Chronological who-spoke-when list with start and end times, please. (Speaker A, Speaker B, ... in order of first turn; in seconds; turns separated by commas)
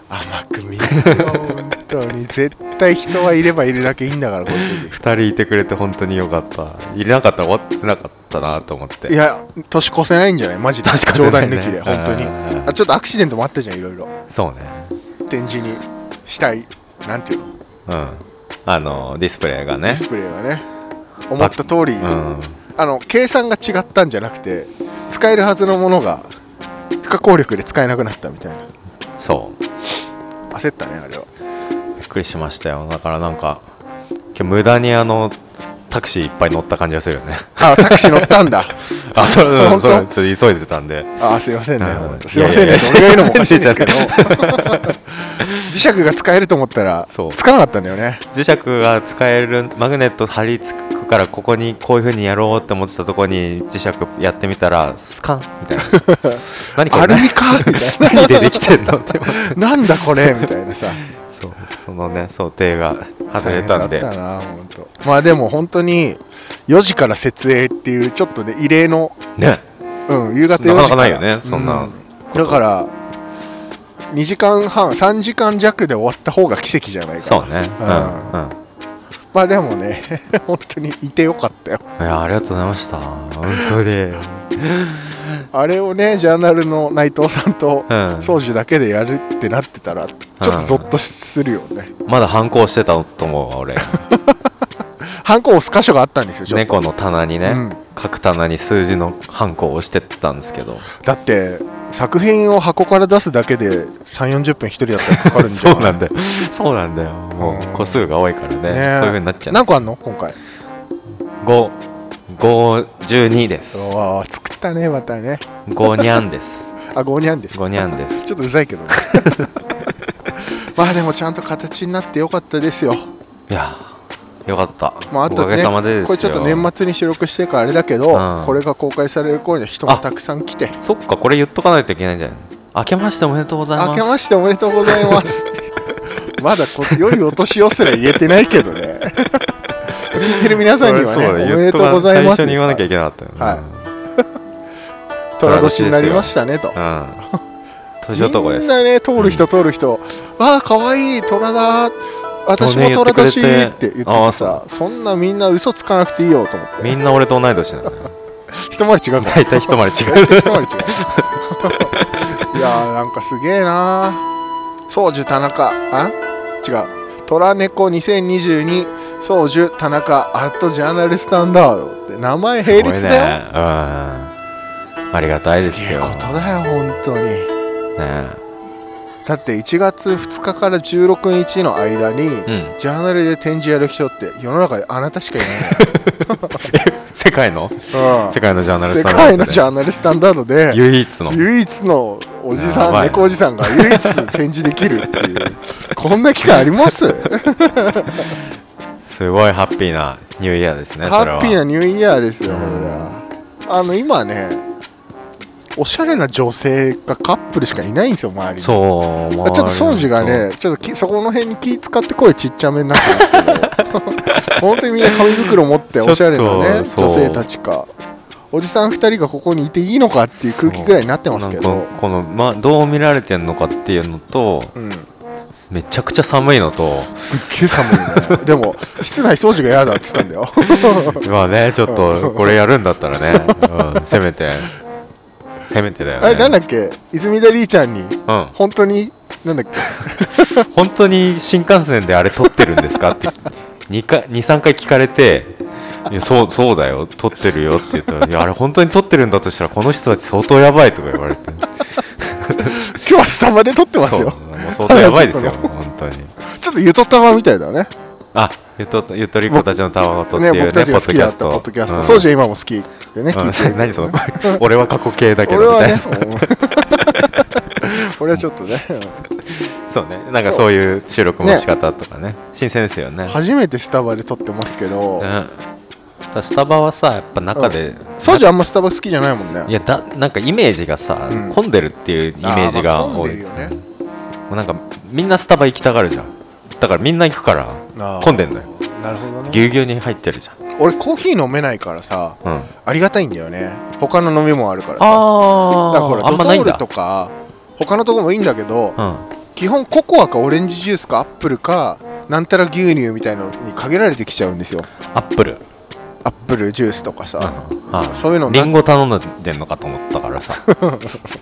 Speaker A: 0.1-5.0, Speaker B: 0.8-1.6, Speaker B: 4.5-9.2, Speaker A: 9.1-14.1, Speaker B: 10.8-12.8, Speaker B: 14.3-14.9, Speaker A: 15.3-17.5, Speaker B: 17.9-20.1, Speaker A: 19.8-20.7, Speaker A: 21.3-22.1, Speaker B: 21.4-22.6, Speaker A: 22.8-26.3, Speaker A: 27.0-28.6, Speaker B: 29.2-29.6, Speaker A: 30.5-31.3, Speaker B: 32.0-33.7, Speaker B: 34.3-35.4, Speaker B: 35.9-41.2, Speaker A: 37.6-40.1, Speaker A: 41.2-45.0, Speaker B: 41.8-45.7, Speaker A: 45.6-48.2, Speaker B: 47.1-47.4, Speaker B: 48.3-56.1, Speaker A: 55.9-61.0, Speaker B: 56.6-60.4, Speaker B: 61.0-64.1, Speaker A: 63.4-69.2, Speaker B: 69.4-69.6, Speaker A: 70.1-72.9, Speaker B: 70.6-72.6, Speaker A: 74.1-78.4, Speaker B: 77.2-78.6, Speaker A: 79.3-81.8, Speaker B: 82.0-85.4, Speaker A: 83.5-83.7, Speaker A: 85.5-91.9, Speaker B: 87.9-88.4, Speaker B: 90.4-90.9, Speaker B: 92.1-94.1, Speaker A: 93.9-94.2, Speaker A: 95.2-96.9, Speaker B: 96.5-100.9, Speaker A: 97.4-97.8, Speaker A: 101.0-106.0, Speaker B: 105.0-109.8, Speaker A: 107.4-108.1, Speaker A: 108.7-110.4, Speaker B: 111.4-113.9, Speaker A: 113.7-115.4, Speaker B: 115.7-116.7, Speaker A: 116.9-117.6, Speaker B: 117.5-118.2, Speaker A: 118.2-119.5, Speaker B: 119.0-119.5, Speaker A: 120.8-123.1, Speaker B: 123.5-126.7, Speaker A: 125.1-130.8, Speaker B: 128.1-128.6, Speaker B: 130.8-134.1, Speaker A: 133.8-139.5, Speaker B: 134.9-135.3, Speaker A: 140.1-143.6, Speaker B: 140.2-143.9, Speaker A: 145.4-146.8, Speaker B: 145.4-147.2, Speaker B: 148.0-149.5, Speaker A: 148.1-157.0, Speaker B: 152.6-154.6, Speaker B: 156.8-158.1, Speaker A: 158.6-164.2, Speaker B: 159.2-162.6, Speaker A: 164.9-173.4, Speaker B: 172.7-174.3, Speaker B: 175.1-176.6, Speaker A: 175.5-177.5, Speaker B: 178.0-178.4, Speaker A: 179.2-185.8, Speaker B: 182.5-182.8, Speaker B: 185.5-189.7, Speaker A: 187.9-198.4, Speaker B: 190.7-191.5, Speaker B: 192.5-194.3, Speaker B: 199.1-201.6, Speaker A: 201.0-204.6, Speaker B: 202.4-203.1, Speaker A: 205.8-208.8, Speaker B: 208.6-210.5, Speaker A: 209.4-217.9, Speaker B: 213.0-213.7, Speaker B: 215.9-217.5, Speaker A: 218.5-221.9, Speaker B: 220.6-224.7, Speaker A: 224.8-225.1, Speaker B: 225.7-227.1, Speaker A: 227.2-231.2, Speaker B: 227.8-228.4, Speaker B: 230.7-234.7, Speaker A: 231.9-232.6, Speaker A: 233.4-234.0, Speaker B: 235.7-236.6, Speaker A: 236.2-240.7, Speaker B: 238.3-238.6, Speaker B: 240.5-252.8, Speaker A: 252.7-255.7, Speaker B: 254.0-256.3, Speaker A: 256.5-257.9, Speaker B: 258.3-262.3, Speaker A: 260.3-264.6, Speaker B: 263.3-266.3, Speaker A: 265.4-269.2, Speaker B: 269.5-273.4, Speaker A: 271.4-271.7, Speaker A: 273.3-275.3, Speaker B: 275.2-275.6, Speaker B: 276.3-278.5, Speaker A: 277.6-279.7, Speaker B: 279.6-283.9, Speaker A: 281.3-281.6, Speaker A: 282.4-283.8, Speaker B: 284.5-288.7, Speaker A: 287.9-289.7, Speaker B: 289.4-290.6, Speaker A: 290.8-299.0, Speaker B: 292.4-292.8, Speaker B: 295.0-296.8, Speaker B: 299.0-299.3, Speaker A: 299.6-304.9, Speaker B: 305.1-305.6, Speaker A: 306.2-308.7, Speaker B: 307.4-310.6, Speaker A: 310.6-311.3